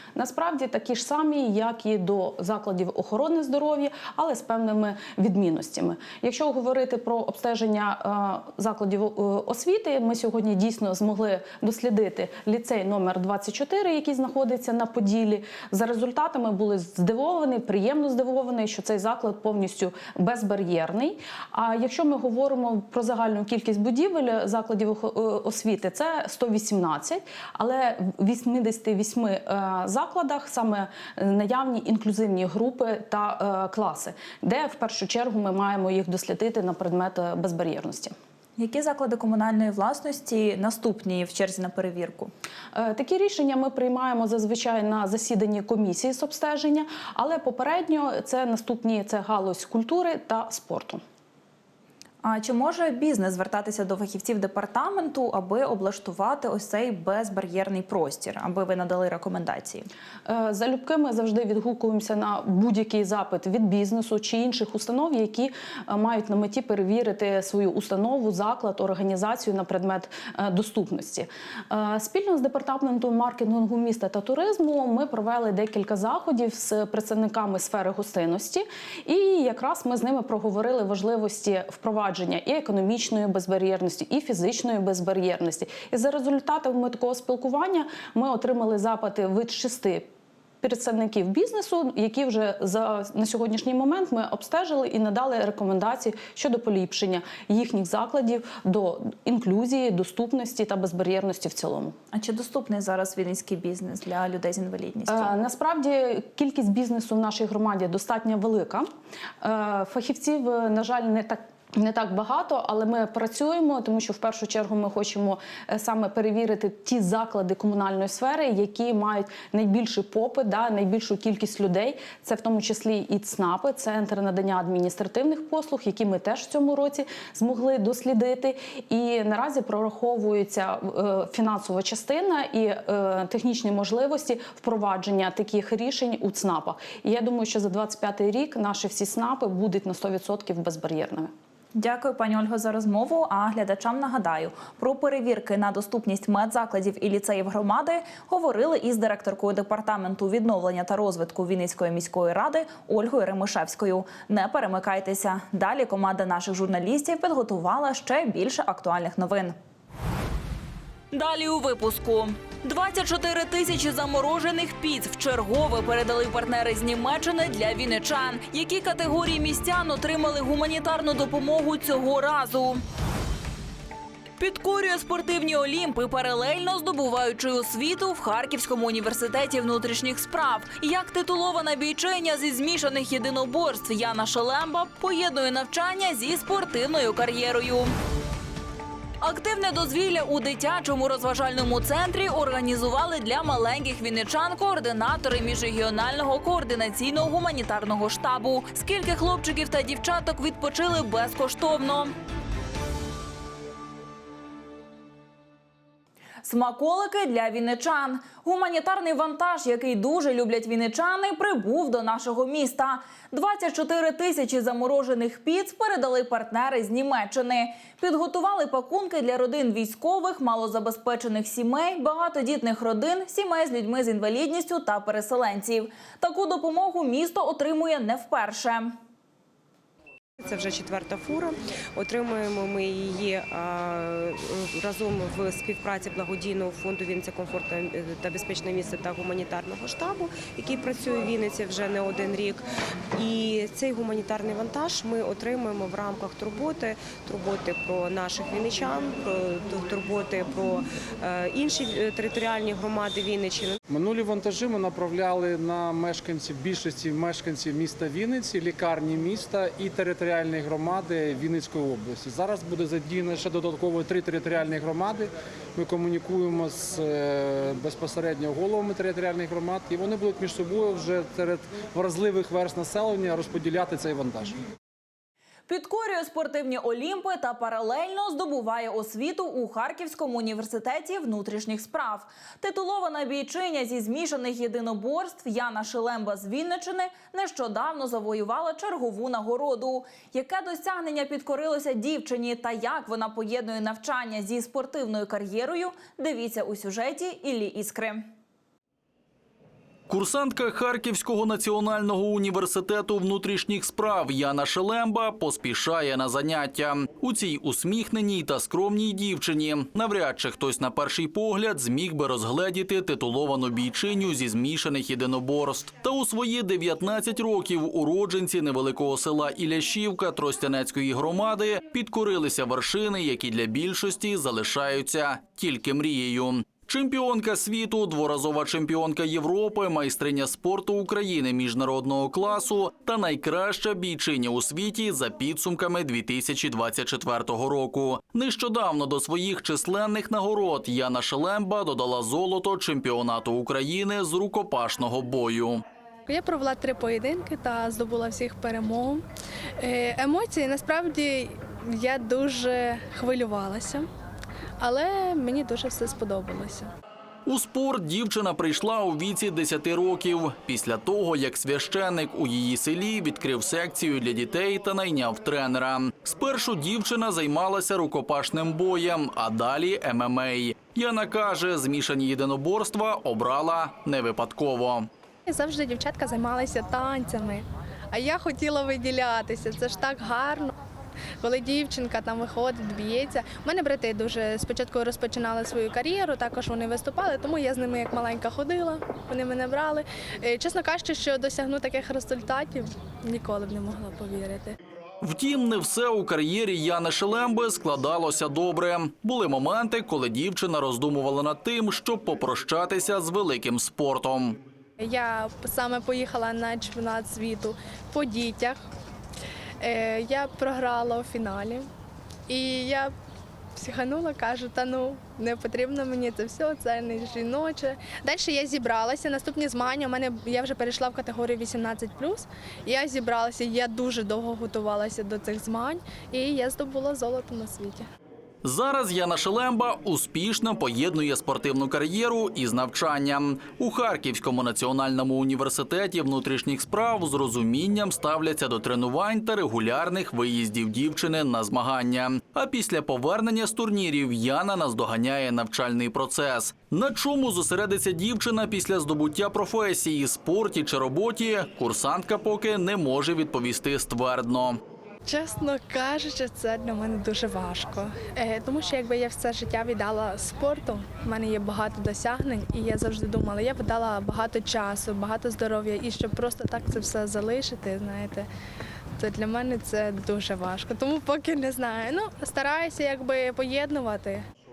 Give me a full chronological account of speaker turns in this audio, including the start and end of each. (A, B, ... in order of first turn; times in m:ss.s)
0:00.1-0:38.1 A
0:38.6-0:42.3 B
0:42.7-0:51.0 A
0:52.2-0:59.9 B
1:00.2-1:30.1 A
1:30.6-1:42.0 A
1:42.1-1:45.3 B
1:45.1-1:48.9 A
1:49.4-2:21.3 A
2:21.8-2:39.5 B
2:41.1-2:52.8 B
2:54.4-3:07.9 B
3:09.2-3:22.1 B
3:26.4-3:49.0 B
3:50.4-4:13.8 C
4:13.9-4:34.7 D
4:35.7-4:58.3 B
5:00.1-5:45.8 E
5:46.3-5:49.2 F
5:49.8-5:54.1 F
5:54.8-5:56.9 F
5:57.5-6:15.1 E
6:15.5-6:20.7 F
6:21.4-6:34.8 F
6:35.2-6:44.6 E
6:45.0-6:48.8 F
6:49.8-6:51.9 F
6:52.5-6:53.1 F
6:53.8-7:08.1 F
7:08.6-7:34.8 E
7:35.2-7:48.5 F
7:49.2-7:54.4 F